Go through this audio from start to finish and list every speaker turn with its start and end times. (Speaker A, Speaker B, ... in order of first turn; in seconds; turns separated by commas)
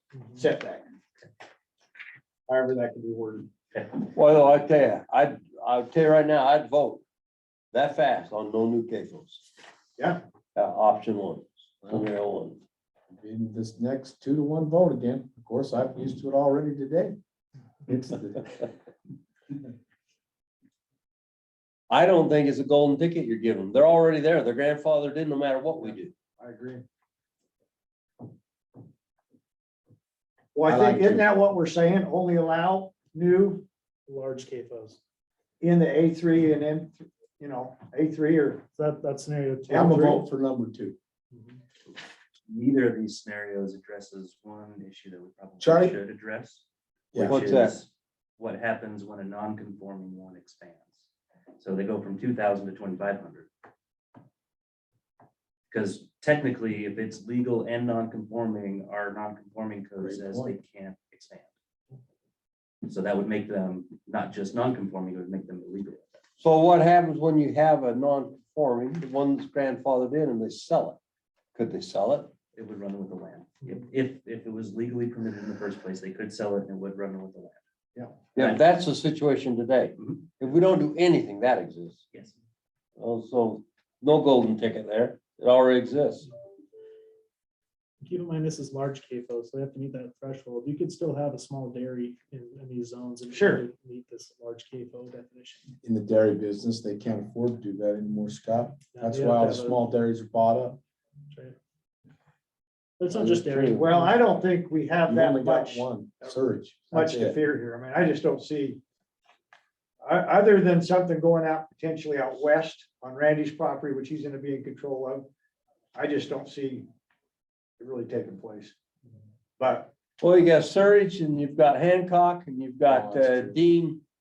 Speaker A: 0.1-0.4, Speaker B: 0.4-0.9, Speaker B: 2.5-3.5, Speaker C: 4.1-7.0, Speaker C: 7.7-9.4, Speaker C: 10.5-12.6, Speaker D: 13.1-17.1, Speaker D: 17.9-18.6, Speaker C: 21.9-26.1, Speaker B: 25.8-26.8, Speaker B: 30.5-33.6, Speaker D: 30.6-31.2, Speaker A: 34.1-35.0, Speaker B: 35.6-38.6, Speaker A: 38.7-40.0, Speaker B: 39.7-40.2, Speaker D: 39.7-41.0, Speaker A: 41.3-41.6, Speaker E: 42.5-46.6, Speaker D: 45.6-45.9, Speaker D: 47.1-47.4, Speaker E: 47.1-51.0, Speaker C: 47.2-47.8, Speaker E: 51.6-53.5, Speaker E: 55.7-61.5, Speaker D: 60.0-60.5, Speaker E: 62.8-66.2, Speaker C: 66.4-71.0, Speaker C: 71.5-72.3, Speaker E: 72.5-77.6, Speaker C: 78.3-82.0, Speaker E: 78.3-78.6, Speaker E: 80.0-80.5, Speaker C: 83.0-86.3, Speaker A: 88.0-95.7, Speaker B: 93.3-93.6, Speaker D: 95.8-100.8, Speaker A: 98.9-99.8, Speaker A: 101.3-101.6, Speaker A: 103.0-104.1, Speaker C: 103.2-103.9, Speaker B: 103.7-106.3, Speaker D: 105.0-107.4, Speaker B: 106.9-108.8, Speaker B: 110.0-115.3, Speaker B: 115.9-116.9, Speaker B: 117.8-118.7, Speaker B: 119.6-119.9, Speaker C: 120.2-124.0, Speaker D: 122.9-123.6